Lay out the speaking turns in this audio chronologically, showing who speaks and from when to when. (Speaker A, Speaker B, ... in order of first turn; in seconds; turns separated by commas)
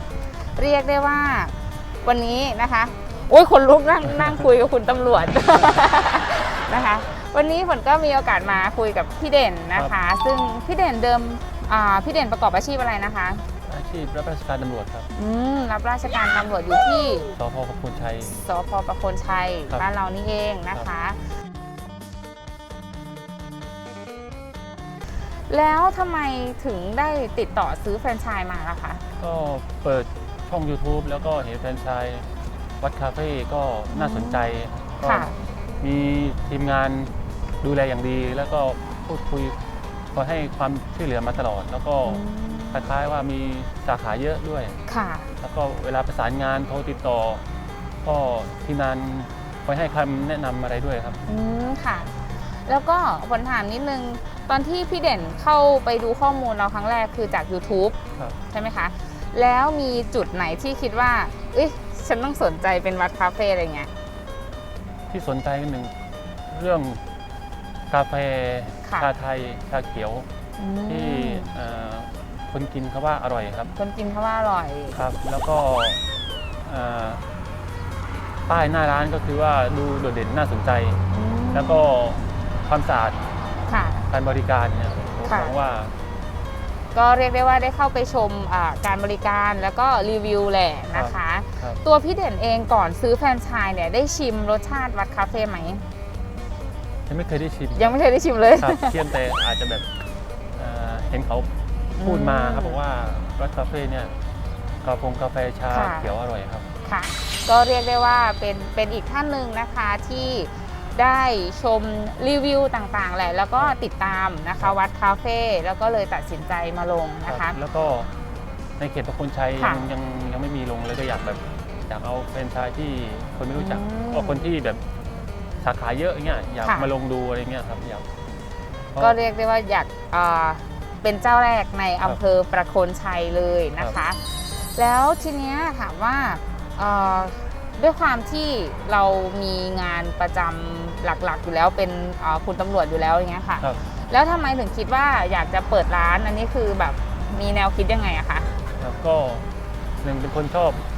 Speaker A: 0.6-13.4, Speaker B: 13.6-15.1, Speaker A: 15.1-17.3, Speaker B: 17.4-18.4, Speaker A: 18.2-21.2, Speaker A: 25.5-29.0, Speaker B: 29.2-39.6, Speaker A: 33.9-34.5, Speaker A: 35.0-35.4, Speaker B: 40.1-42.2, Speaker A: 42.1-42.9, Speaker B: 42.7-44.8, Speaker A: 44.9-45.3, Speaker B: 45.4-47.4, Speaker B: 48.0-51.2, Speaker A: 51.3-63.9, Speaker B: 65.1-65.9, Speaker B: 66.5-67.0, Speaker B: 67.9-70.3, Speaker A: 70.6-71.5, Speaker B: 70.9-73.7, Speaker A: 73.8-75.0, Speaker B: 74.9-76.0, Speaker B: 76.6-77.2, Speaker B: 78.5-81.0, Speaker A: 81.1-81.8, Speaker B: 81.5-83.2, Speaker A: 83.7-84.0, Speaker B: 84.1-85.9, Speaker A: 85.2-85.5, Speaker A: 86.9-95.8, Speaker B: 90.9-91.8, Speaker B: 97.1-98.0, Speaker A: 97.8-99.0, Speaker B: 98.6-99.9, Speaker B: 100.5-104.1, Speaker A: 102.0-102.8, Speaker B: 104.8-106.7, Speaker A: 105.7-106.1, Speaker A: 106.8-117.6, Speaker B: 117.3-118.1, Speaker B: 118.8-124.8, Speaker A: 119.6-119.9, Speaker A: 123.5-124.5, Speaker B: 125.6-128.1, Speaker A: 126.6-126.9, Speaker A: 129.0-148.5, Speaker B: 148.8-149.5, Speaker B: 150.0-150.8